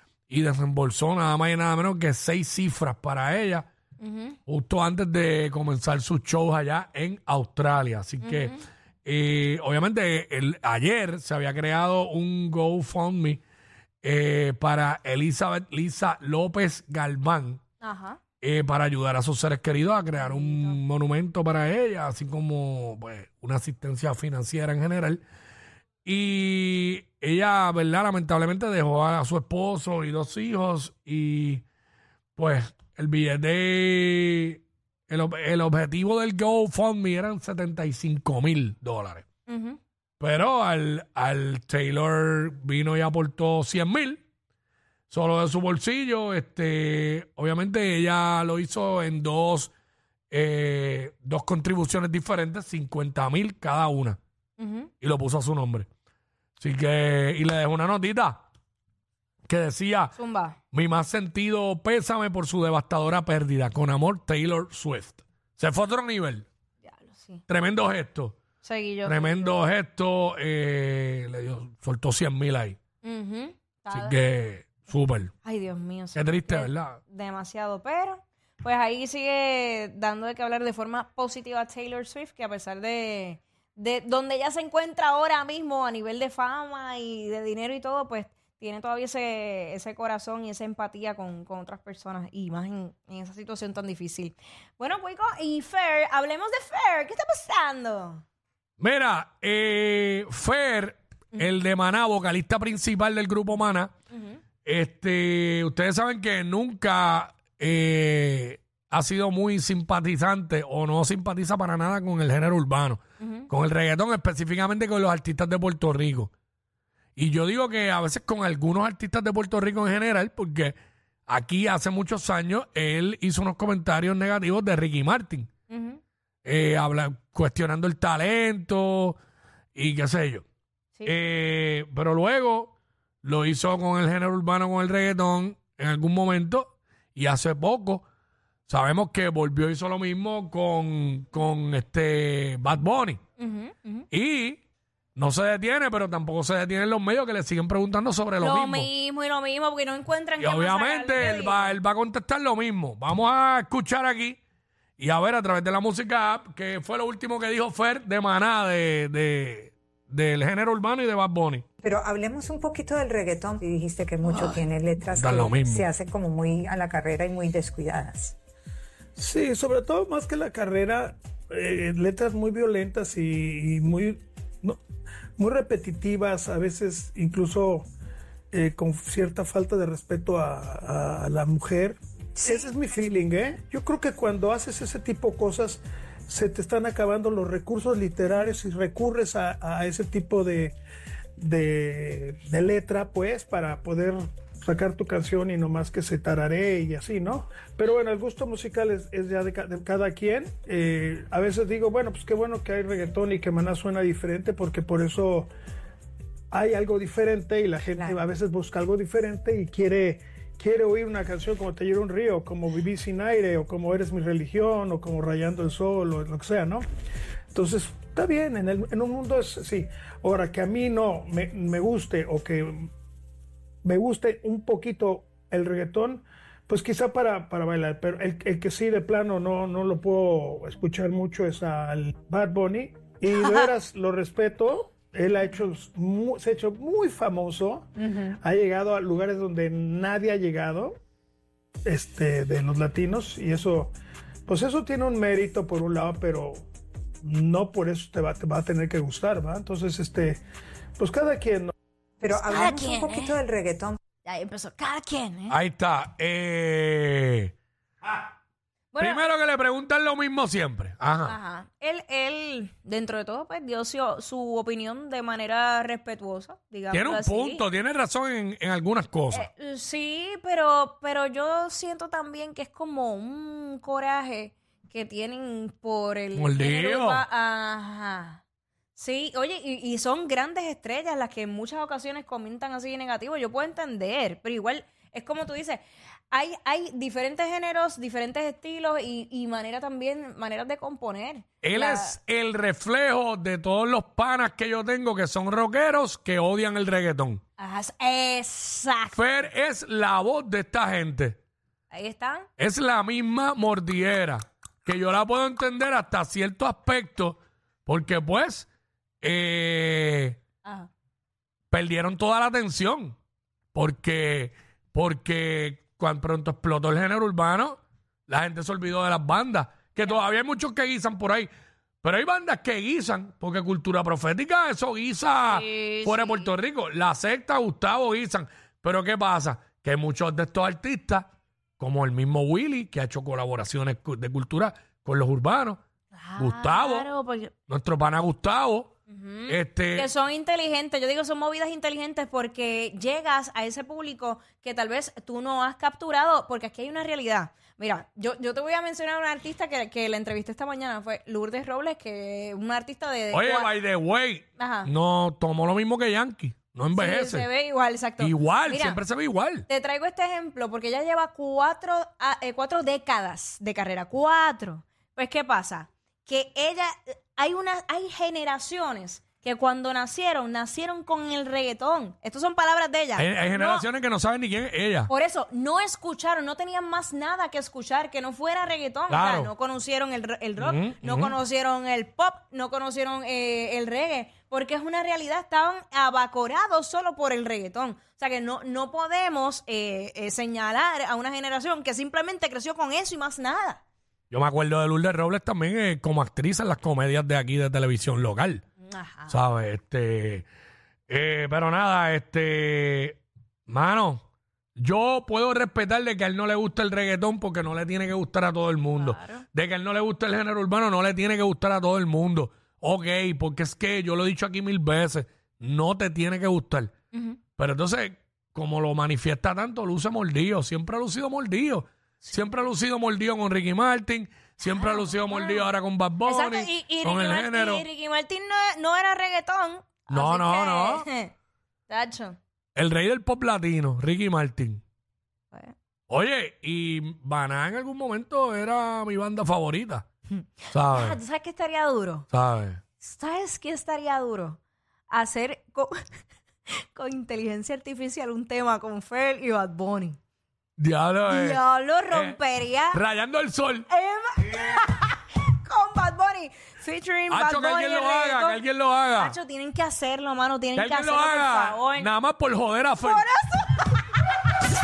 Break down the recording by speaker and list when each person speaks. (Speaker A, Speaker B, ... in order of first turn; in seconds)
Speaker A: 0.3-3.7, 4.5-13.4, 14.0-17.6, 18.4-25.2, 26.0-31.6, 32.4-39.2, 40.2-44.2, 45.1-49.7, 50.3-54.2, 55.0-55.9, 56.6-58.4, 59.5-60.1, 60.7-66.5, 67.5-68.4, 69.0-72.8, 73.9-75.3, 76.1-77.0, 98.8-103.9, 104.6-116.3, 117.2-120.7, 121.3-125.5, 126.4-129.2, 129.7-130.4, 131.0-138.0, 138.7-143.2, 144.1-144.6, 145.2-148.9, 150.4-154.4, 155.0-161.6, 164.2-165.9, 255.5-257.5, 259.0-261.4, 266.9-269.5, 276.4-277.2, 291.6-297.4, 299.1-301.4, 302.6-308.7, 309.2-310.4, 311.7-313.1, 313.7-321.5, 322.0-335.8, 336.4-337.1, 337.7-338.9, 339.5-340.1, 353.3-357.5, 358.2-359.6, 373.1-375.1, 379.1-379.5, 380.6-381.3, 394.3-398.6, 399.3-400.4, 401.1-404.2, 404.8-416.9, 417.6-427.8, 430.1-431.1, 432.8-434.8, 436.1-440.0, 440.7-441.2, 442.3-442.8, 450.8-452.4, 452.9-453.9, 457.3-459.4, 460.8-463.2
Speaker B: 4.0-4.4, 8.2-8.6, 17.8-18.2, 20.2-20.8, 39.5-39.8, 54.6-54.9, 60.1-60.6, 66.8-67.4, 68.6-69.6, 73.0-74.2, 75.4-98.2, 104.1-104.4, 113.2-113.5, 125.7-126.0, 143.4-144.1, 148.4-151.7, 233.3-233.7, 238.0-238.3, 252.3-253.4, 254.2-255.6, 258.9-259.2, 261.2-267.6, 269.3-278.4, 278.9-292.2, 297.6-299.2, 301.9-302.5, 310.6-310.9, 325.4-326.5, 336.1-337.5, 339.1-353.7, 354.6-354.9, 356.9-359.0, 359.7-373.9, 375.1-393.8, 398.9-399.3, 408.9-409.4, 417.1-417.4, 424.6-425.6, 426.2-431.3, 431.9-432.4, 440.3-442.3, 443.0-444.6, 445.1-445.9, 446.7-450.2, 451.3-453.0, 453.9-458.6, 459.1-462.1, 463.0-464.0
Speaker C: 161.8-168.3, 182.4-182.7, 207.9-208.2, 252.2-254.0
Speaker D: 169.2-174.8, 175.4-177.9, 178.5-190.8, 191.4-205.5, 206.5-216.8, 217.5-222.9, 223.8-240.9, 241.8-243.9, 244.5-246.6, 247.2-250.4, 251.0-251.7